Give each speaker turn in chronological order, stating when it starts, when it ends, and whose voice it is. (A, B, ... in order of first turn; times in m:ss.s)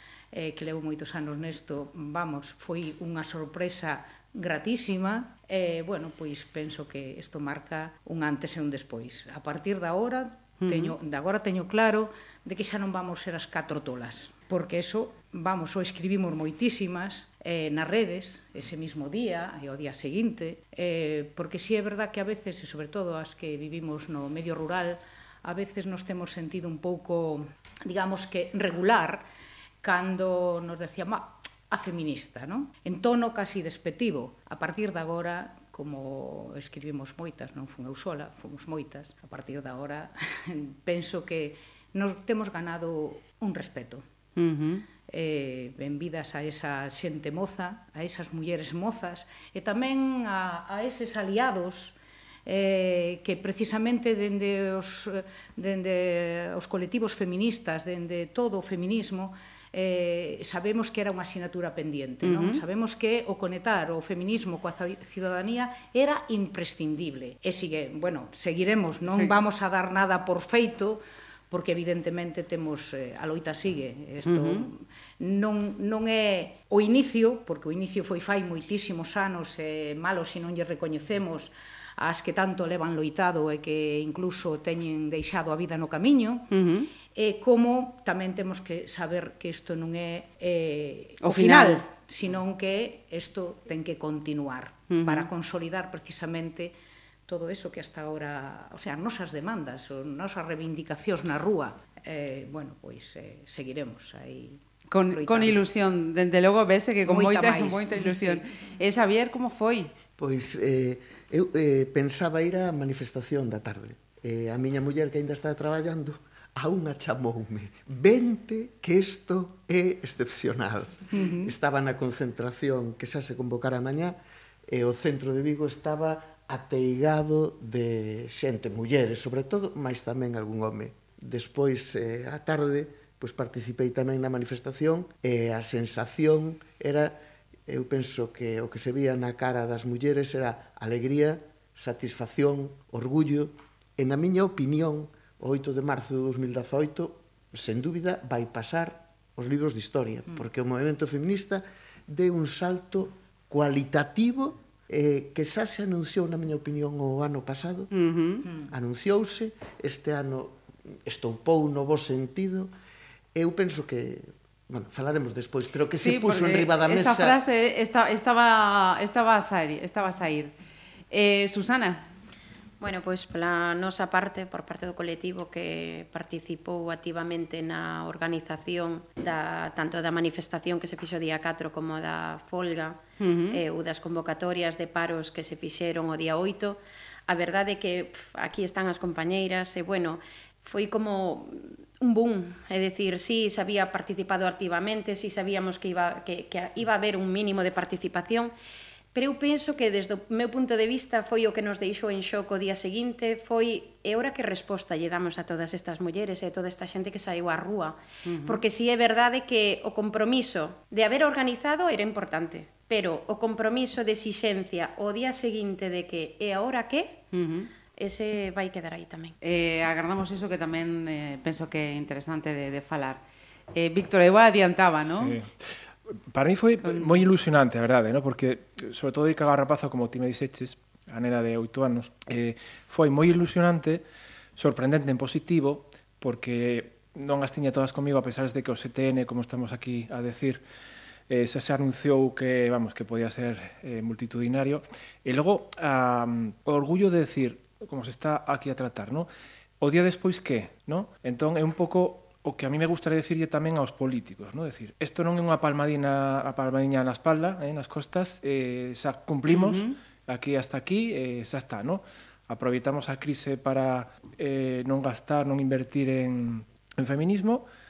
0:00.3-0:29.2 A
0:10.6-0:11.0 B
0:29.8-0:44.0 A
0:44.4-0:44.8 B
0:45.1-0:51.9 A
0:52.4-1:26.5 A
1:02.2-1:02.6 B
1:09.1-1:09.4 B
1:14.2-1:14.7 B
1:26.5-1:26.9 B
1:27.1-1:36.7 A
1:31.2-1:31.8 B
1:34.9-1:35.3 B
1:37.3-1:45.6 A
1:44.9-1:49.9 B
1:47.0-1:48.4 A
1:50.2-2:17.2 C
2:17.7-2:37.9 C
2:37.9-2:38.5 B
2:38.7-2:42.7 C
2:43.3-2:47.4 C
2:45.9-2:50.5 B
2:51.1-2:52.1 B
2:52.8-3:18.5 D
3:03.2-3:03.6 B
3:19.1-3:37.2 D
3:28.2-3:28.6 B
3:37.3-3:37.7 B
3:37.9-3:39.4 D
3:39.4-3:43.2 B
3:43.7-3:45.4 B
3:45.0-3:54.0 E
3:46.8-3:47.2 B
3:54.6-4:00.6 E
4:01.3-4:09.3 E
4:09.8-4:27.6 E
4:19.5-4:20.0 B